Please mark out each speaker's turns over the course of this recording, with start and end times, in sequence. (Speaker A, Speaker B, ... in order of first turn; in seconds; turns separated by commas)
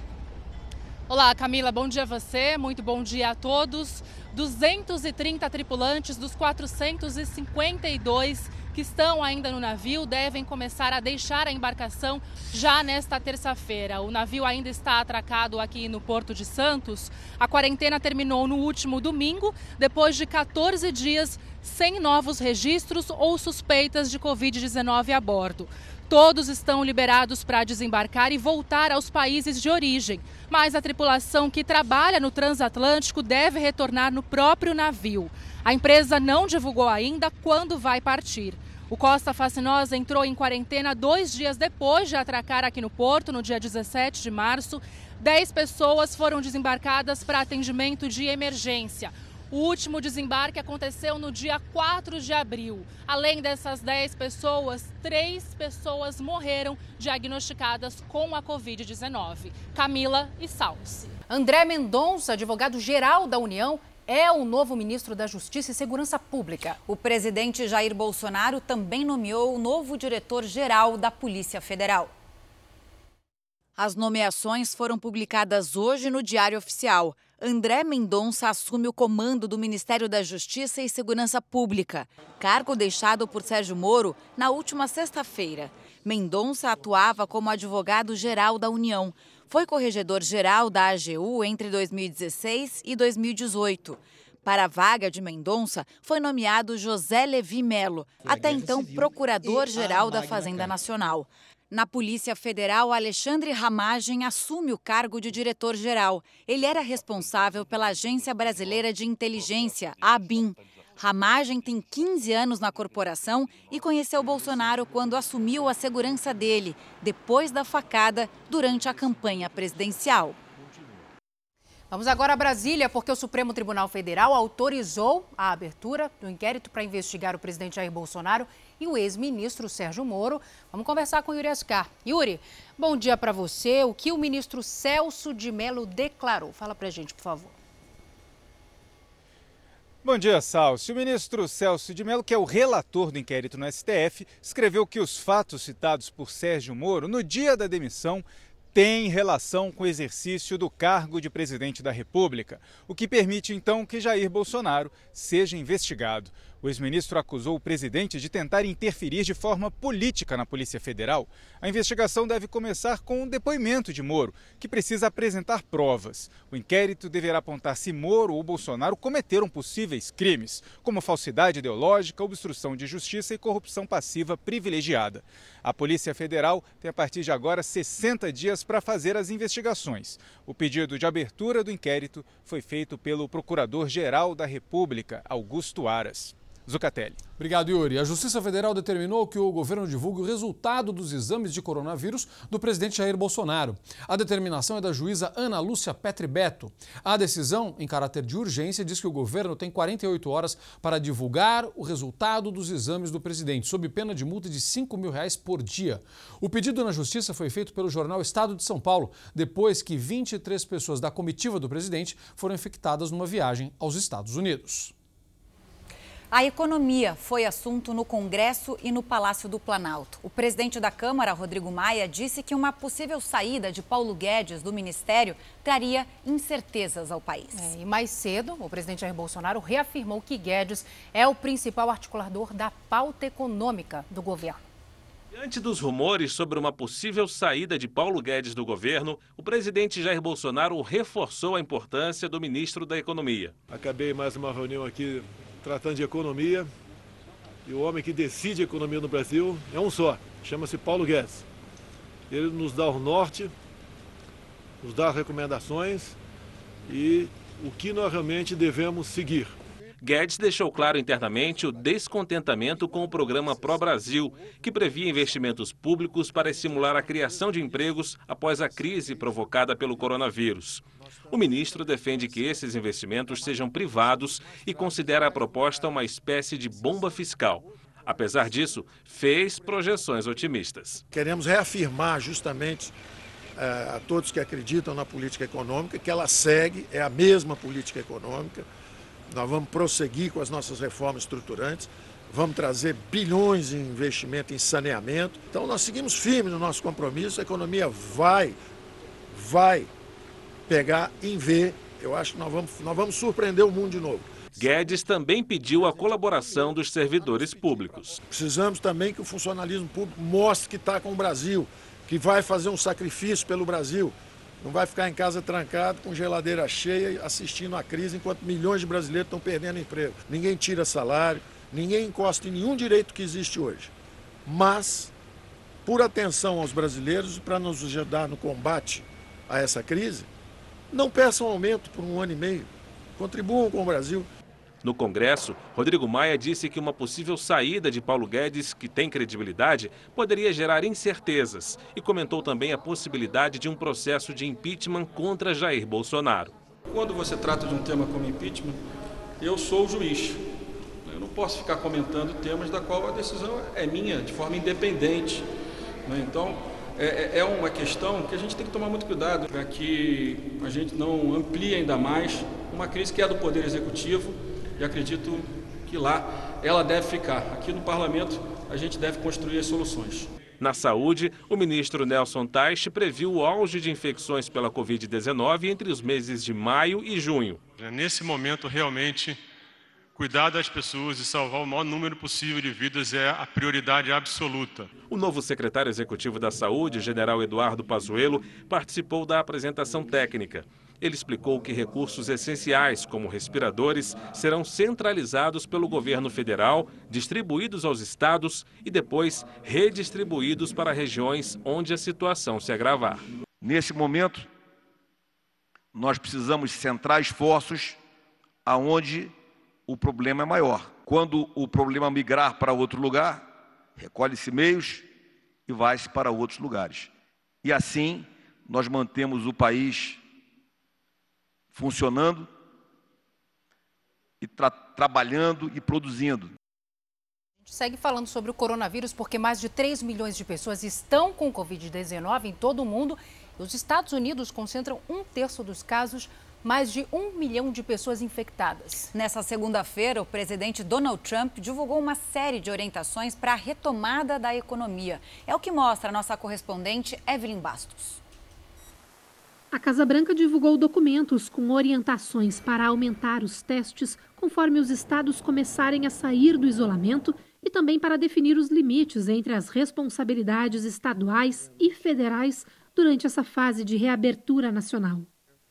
Speaker A: 1.1-61.1, Speaker B: 61.3-66.8, Speaker C: 66.8-72.1, Speaker C: 73.8-120.4, Speaker B: 121.9-137.6, Speaker D: 140.0-187.2, Speaker E: 187.4-214.9, Speaker C: 216.3-227.7, Speaker B: 227.5-234.6, Speaker F: 235.3-243.6, Speaker G: 243.8-245.1, Speaker G: 245.7-246.5, Speaker G: 247.7-249.6, Speaker G: 252.4-252.7, Speaker G: 257.6-259.4, Speaker F: 260.0-281.0, Speaker H: 281.1-282.9, Speaker H: 283.6-288.6, Speaker H: 289.3-298.6, Speaker H: 299.3-299.9, Speaker H: 300.7-304.4, Speaker F: 304.5-308.2, Speaker H: 308.3-323.9, Speaker H: 324.4-325.1, Speaker H: 325.8-330.3, Speaker H: 330.9-334.3, Speaker F: 334.8-346.5, Speaker I: 346.9-348.8, Speaker I: 349.4-355.5, Speaker I: 356.0-370.3, Speaker F: 370.6-377.6, Speaker J: 377.8-379.4, Speaker J: 380.1-384.9, Speaker F: 385.1-403.2, Speaker K: 403.6-404.5, Speaker K: 405.9-408.0, Speaker K: 408.6-409.3, Speaker K: 409.9-413.5, Speaker K: 414.0-415.1, Speaker K: 415.7-417.1, Speaker K: 417.6-420.2, Speaker K: 421.7-422.5, Speaker K: 424.4-426.5, Speaker B: 427.6-439.1, Speaker C: 439.1-448.2, Speaker L: 449.7-465.3